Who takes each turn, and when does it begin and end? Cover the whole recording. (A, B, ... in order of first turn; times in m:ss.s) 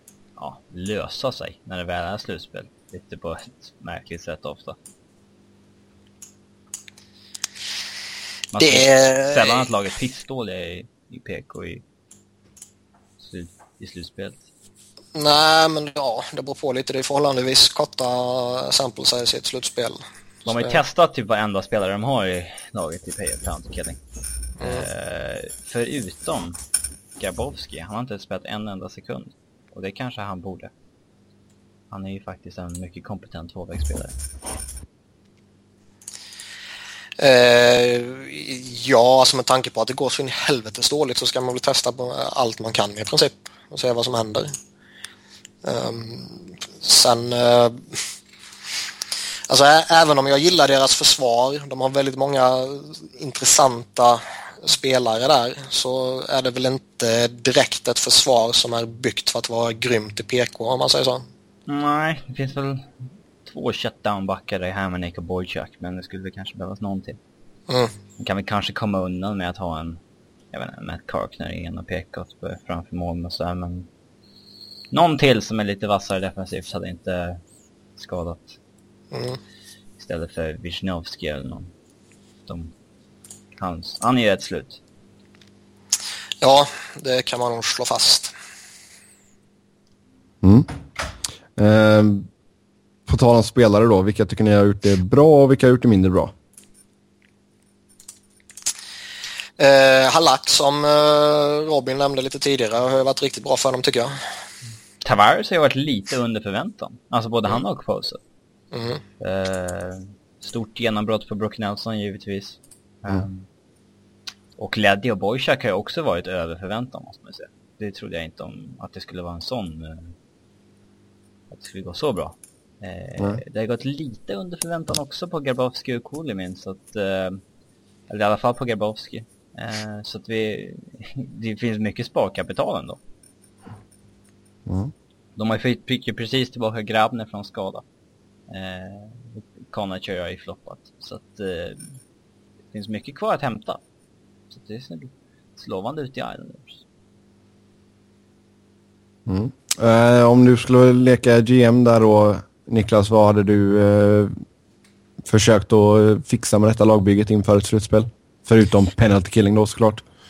0:00.4-0:04.8 A
0:08.5-0:11.8 A
0:08.6-0:09.7 B
0:13.2-0:14.4 A
0:15.2-0:20.8 B
0:20.5-0:24.0 A
0:24.6-0:24.9 B
0:24.6-0:26.6 A
0:27.2-0:30.7 A
0:31.9-0:34.2 A
0:37.2-0:44.5 B
0:45.6-0:48.0 B
0:49.5-1:01.2 B
1:01.7-1:02.9 A
1:03.4-1:07.2 A
1:08.2-1:10.0 A
1:10.5-1:13.9 A
1:14.9-1:17.4 A
1:18.0-1:18.6 A
1:19.1-1:19.4 B
1:20.0-1:21.7 A
1:22.5-1:22.7 A
1:23.6-1:24.8 A
1:26.4-1:28.3 B
1:30.4-1:30.7 C
1:31.6-1:32.3 C
1:33.1-1:36.3 C
1:39.6-1:44.2 B
1:45.0-1:48.2 A
1:48.7-1:49.0 B
1:49.2-1:53.5 A
1:54.6-2:00.1 A
2:01.5-2:07.4 A
2:08.1-2:13.0 A
2:14.7-2:14.9 C
2:15.4-2:17.8 A
2:18.5-2:21.9 A
2:22.7-2:23.8 A
2:24.5-2:26.8 A
2:29.3-2:34.3 C
2:35.3-2:40.0 C